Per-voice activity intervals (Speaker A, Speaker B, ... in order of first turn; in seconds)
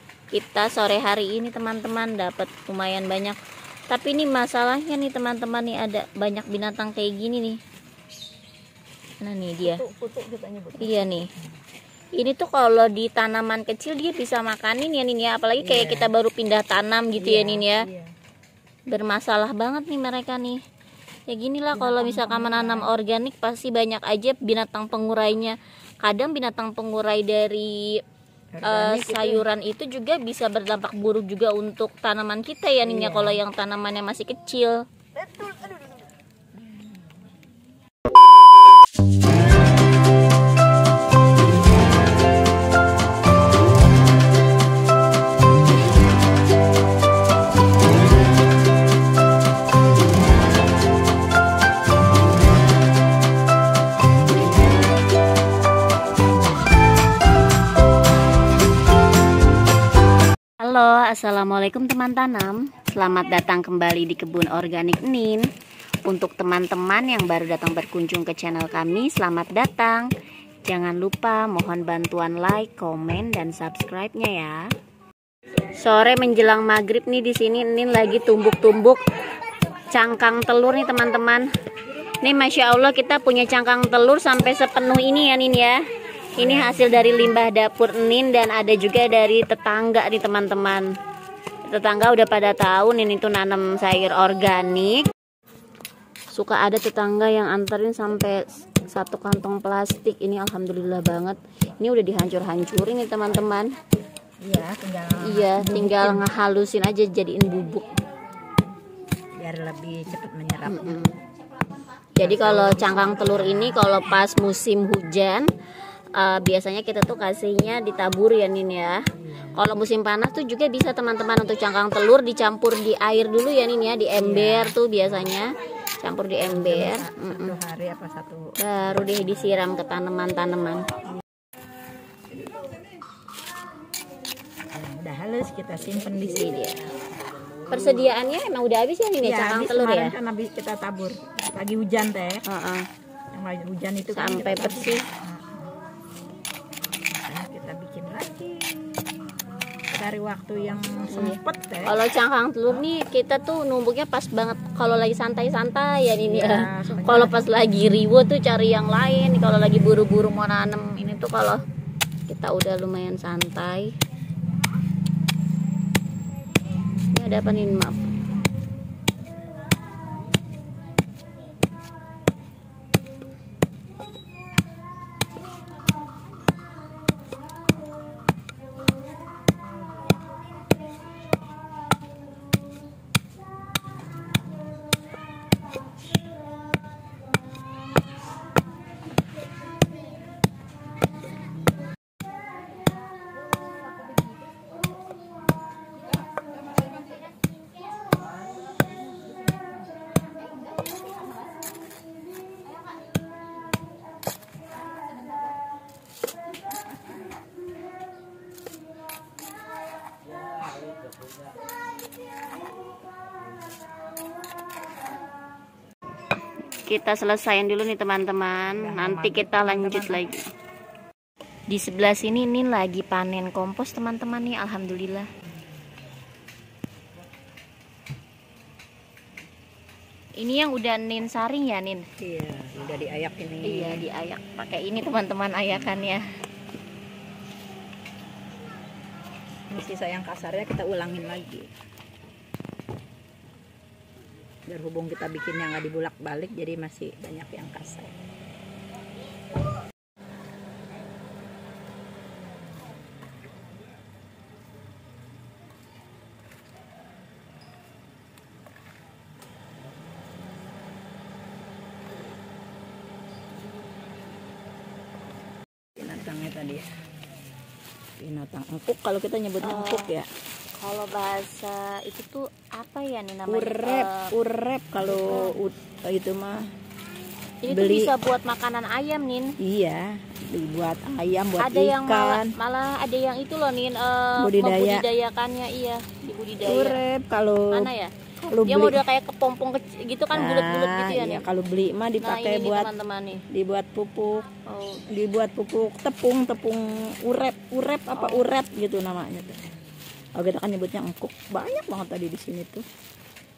Speaker A: 0.3-3.4, 3.9-7.6, 9.2-9.8, 10.8-11.3, 12.2-17.8, 18.9-20.6, 21.3-28.0, 28.6-34.8, 60.6-65.5, 66.0-70.1, 70.7-74.7, 75.8-79.0, 79.9-81.5, 82.2-85.8, 86.4-90.9, 91.7-95.0, 96.3-103.7, 105.2-108.0, 110.6-111.1, 112.2-115.5, 116.2-127.6, 128.6-130.9, 136.2-136.8, 137.7-140.1, 142.5-142.8, 144.1-145.0, 151.1-161.6, 162.3-163.9, 167.1-167.9, 216.8-220.4, 221.7-225.3, 230.4-232.1, 233.6-236.2, 269.6-270.1, 270.8-274.3, 275.0-275.6, 277.6-279.6, 281.6-287.0, 287.7-291.4, 292.2-293.4, 294.7-295.0, 298.1-298.5
Speaker B: 9.6-11.1, 15.6-16.1, 17.2-18.1, 21.7-22.9, 28.5-29.4, 32.8-33.4, 36.6-37.0, 86.4-87.4, 104.4-106.3, 109.4-111.0, 112.2-114.2, 119.2-119.7, 124.2-125.4, 126.4-129.7, 132.3-132.8, 134.7-136.8, 137.7-138.1, 139.2-142.4, 143.3-145.7, 147.1-149.3, 149.9-151.9, 156.2-157.4, 218.7-220.2, 232.2-234.1, 239.7-241.7, 244.7-248.1, 266.0-266.9, 268.2-270.3, 273.5-276.6, 277.7-278.1, 279.6-282.6, 284.4-285.1, 286.6-287.9, 288.5-289.0, 290.3-292.9, 293.5-294.5, 295.1-299.6, 300.4-302.9